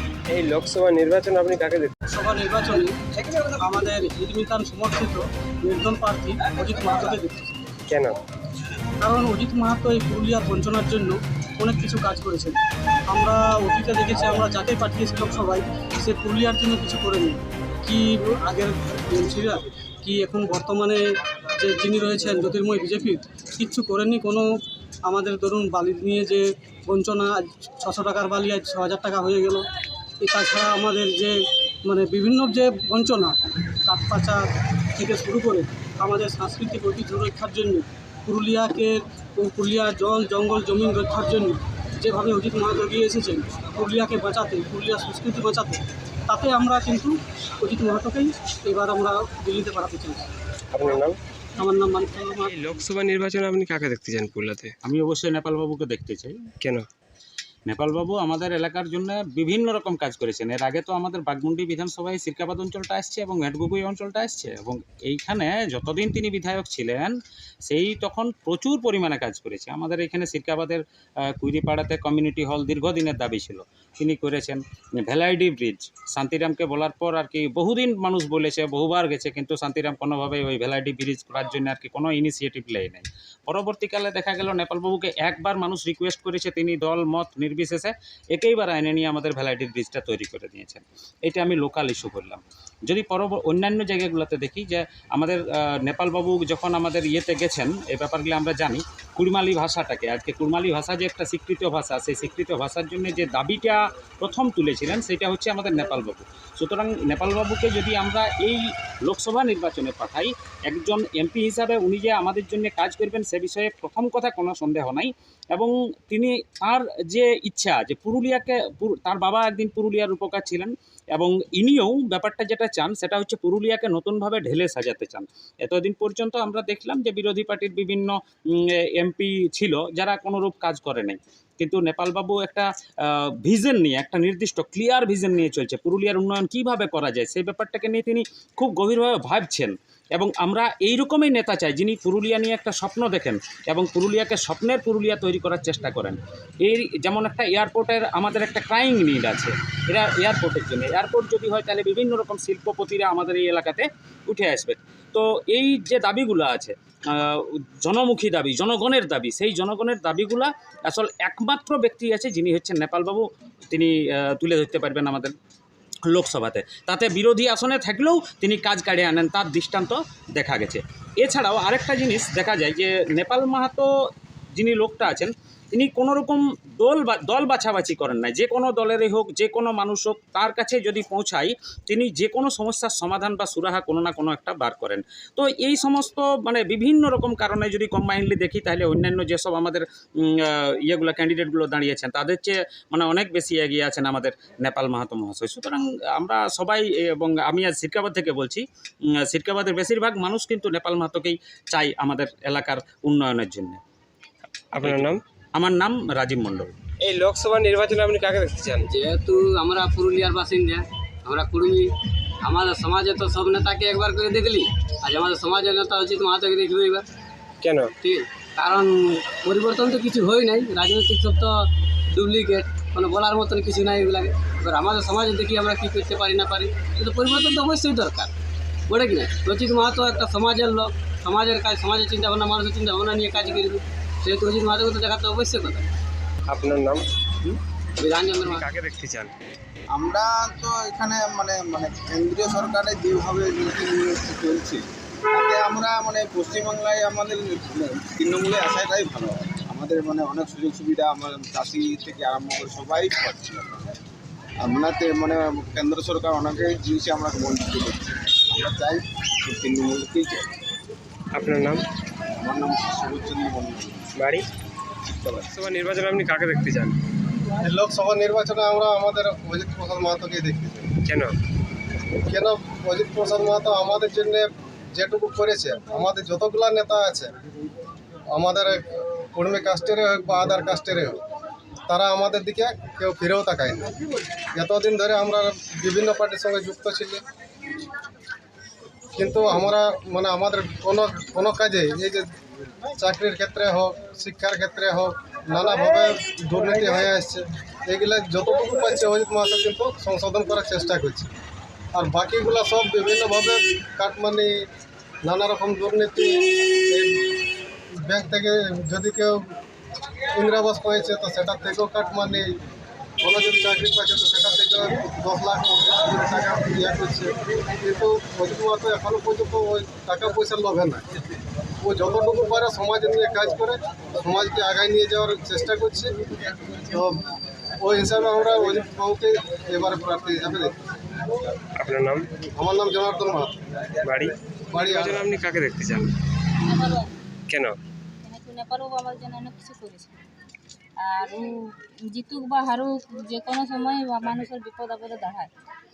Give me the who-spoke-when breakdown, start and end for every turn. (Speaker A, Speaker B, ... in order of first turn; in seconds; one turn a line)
Speaker A: 0.3-1.9
Speaker B: 2.1-7.6
Speaker A: 7.9-8.2
Speaker B: 9.0-21.0
Speaker B: 21.6-24.4
Speaker B: 25.1-29.6
Speaker B: 30.2-31.4
Speaker B: 31.9-34.4
Speaker B: 35.0-50.2
Speaker A: 50.7-51.2
Speaker B: 51.6-52.5
Speaker A: 52.5-54.7
Speaker C: 54.8-56.4
Speaker A: 56.6-56.9
Speaker C: 57.7-67.1
Speaker C: 67.7-70.8
Speaker C: 71.4-132.7
Speaker C: 133.4-165.3
Speaker C: 166.1-173.9
Speaker C: 174.5-198.6
Speaker C: 199.3-203.8
Speaker A: 204.8-205.2
Speaker C: 204.8-206.7
Speaker A: 207.0-208.9
Speaker D: 208.9-211.9
Speaker D: 212.4-217.1
Speaker A: 217.6-217.9
Speaker D: 218.0-228.3
Speaker D: 228.9-235.8
Speaker A: 236.5-237.0
Speaker D: 238.0-238.6
Speaker A: 238.4-239.3
Speaker E: 239.9-253.9
Speaker E: 254.6-260.5
Speaker A: 261.3-261.8
Speaker E: 262.4-264.0
Speaker A: 264.2-264.4
Speaker A: 265.5-267.0
Speaker F: 267.6-270.9
Speaker A: 271.0-271.3
Speaker F: 272.3-277.3
Speaker F: 278.3-278.8
Speaker F: 279.4-281.2
Speaker F: 281.9-283.8
Speaker F: 284.6-287.2
Speaker F: 289.1-292.3
Speaker F: 293.0-301.3
Speaker F: 301.9-304.6
Speaker F: 305.2-307.1
Speaker F: 308.1-309.4
Speaker F: 310.4-312.4
Speaker F: 313.2-317.3
Speaker F: 317.8-321.0
Speaker F: 321.8-326.1
Speaker F: 326.9-327.1
Speaker F: 327.8-330.8
Speaker A: 331.8-332.3
Speaker F: 332.6-333.6
Speaker A: 334.0-336.1
Speaker F: 334.7-335.2
Speaker G: 336.6-337.1
Speaker A: 337.5-337.8
Speaker G: 338.2-340.2
Speaker G: 341.0-345.5